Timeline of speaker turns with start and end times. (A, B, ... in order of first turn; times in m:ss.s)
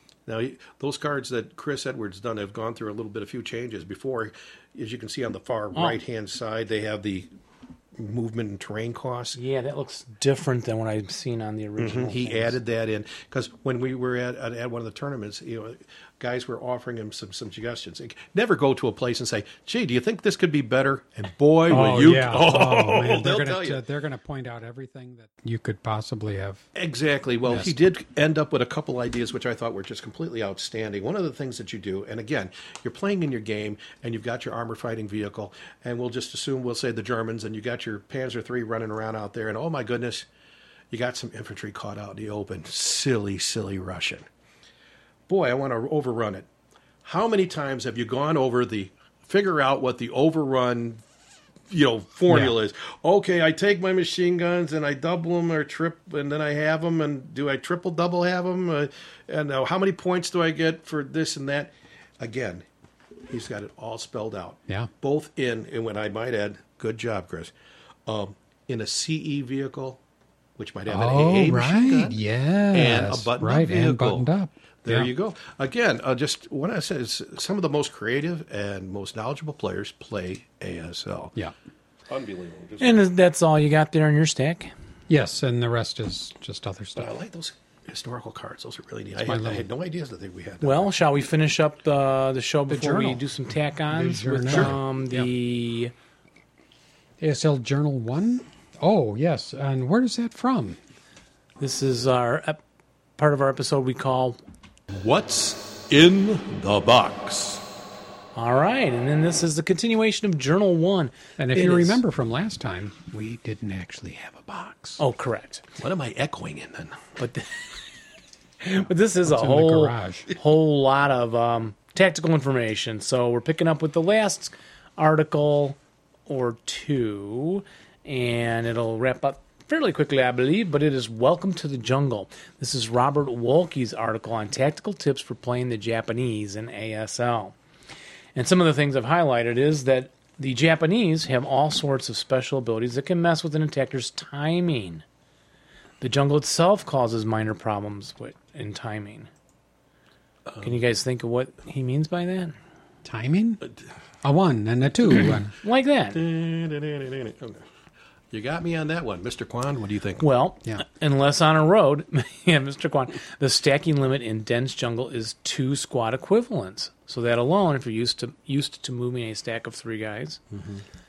0:00.3-0:07.3 A
0:08.0-0:09.4 A
0:09.3-0:12.6 B
0:11.8-0:23.8 A
0:21.7-0:26.6 C
0:26.7-0:40.2 A
0:27.4-0:27.8 C
0:40.9-0:44.2 A
0:45.3-0:46.5 A
0:47.0-0:51.0 A
0:51.7-1:02.6 A
0:52.3-0:52.5 C
1:03.3-1:07.5 A
1:08.0-1:10.0 A
1:10.6-1:12.2 A
1:10.9-1:15.1 C
1:12.7-1:14.3 A
1:14.8-1:21.3 A
1:22.1-1:23.0 A
1:22.8-1:24.7 B
1:25.1-1:27.1 C
1:27.0-1:30.9 A
1:29.2-1:29.7 C
1:30.6-1:35.9 B
1:32.7-1:33.2 C
1:33.9-1:35.3 C
1:34.5-1:34.7 A
1:37.2-1:40.8 C
1:41.6-1:42.6 B
1:43.2-1:44.4 B
1:44.9-1:47.6 A
1:48.4-1:52.0 B
1:51.4-1:55.0 C
1:55.0-1:55.6 B
1:55.8-1:57.0 A
1:57.2-1:57.6 B
1:58.6-2:17.5 B
1:59.2-2:00.3 C
2:18.3-2:25.0 B
2:26.0-2:29.3 B
2:30.5-2:30.7 A
2:30.6-2:32.6 B
2:33.0-2:33.6 C
2:34.2-2:35.5 C
2:35.6-2:36.2 B
2:36.1-2:37.6 A
2:38.3-2:40.2 A
2:40.2-2:50.4 B
2:50.6-2:50.8 A